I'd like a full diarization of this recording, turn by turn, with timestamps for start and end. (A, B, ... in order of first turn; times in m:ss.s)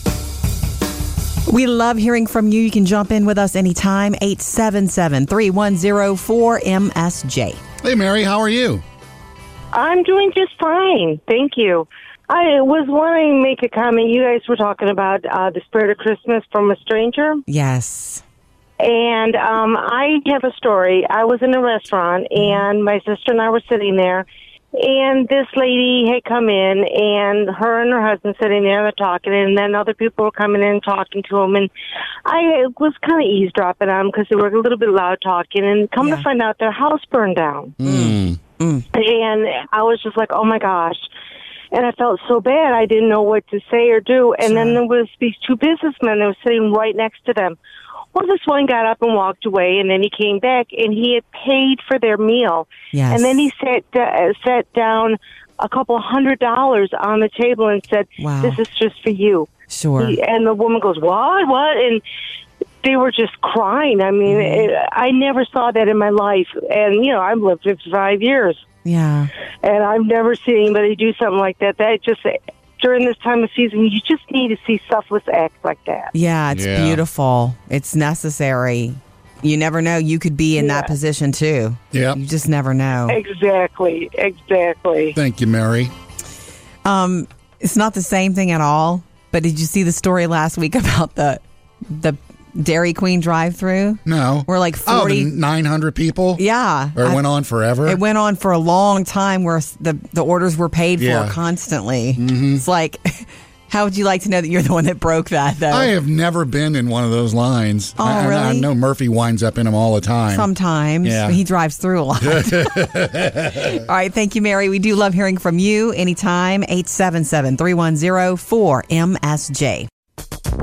0:01.5-0:07.6 A
0:07.8-0:08.8 B
0:09.7-0:17.4 C
0:17.5-0:18.2 A
0:18.8-0:31.7 C
0:22.4-0:22.6 A
0:32.2-0:37.8 C
0:36.0-0:36.2 A
0:37.8-0:38.4 B
0:37.8-0:38.9 A
0:38.9-0:41.0 C
0:41.7-0:47.6 C
0:44.4-0:44.8 A
0:48.1-1:02.0 C
0:52.9-0:53.3 A
0:58.2-0:58.6 A
0:59.7-1:00.2 A
1:02.8-1:08.6 C
1:04.2-1:04.7 A
1:08.8-1:09.3 A
1:09.6-1:16.1 C
1:16.1-1:23.2 A
1:16.5-1:17.0 B
1:20.6-1:20.9 C
1:21.9-1:22.2 B
1:23.1-1:25.2 C
1:25.1-1:25.9 B
1:26.8-1:35.3 A
1:34.1-1:36.4 B
1:36.4-1:37.3 A
1:36.9-1:38.0 B
1:37.8-1:45.9 A
1:41.0-1:41.4 B
1:42.2-1:42.6 B
1:45.7-1:50.5 B
1:48.0-1:48.7 A
1:50.3-1:53.0 A
1:51.0-1:51.4 B
1:52.2-1:53.8 B
1:53.6-1:59.9 A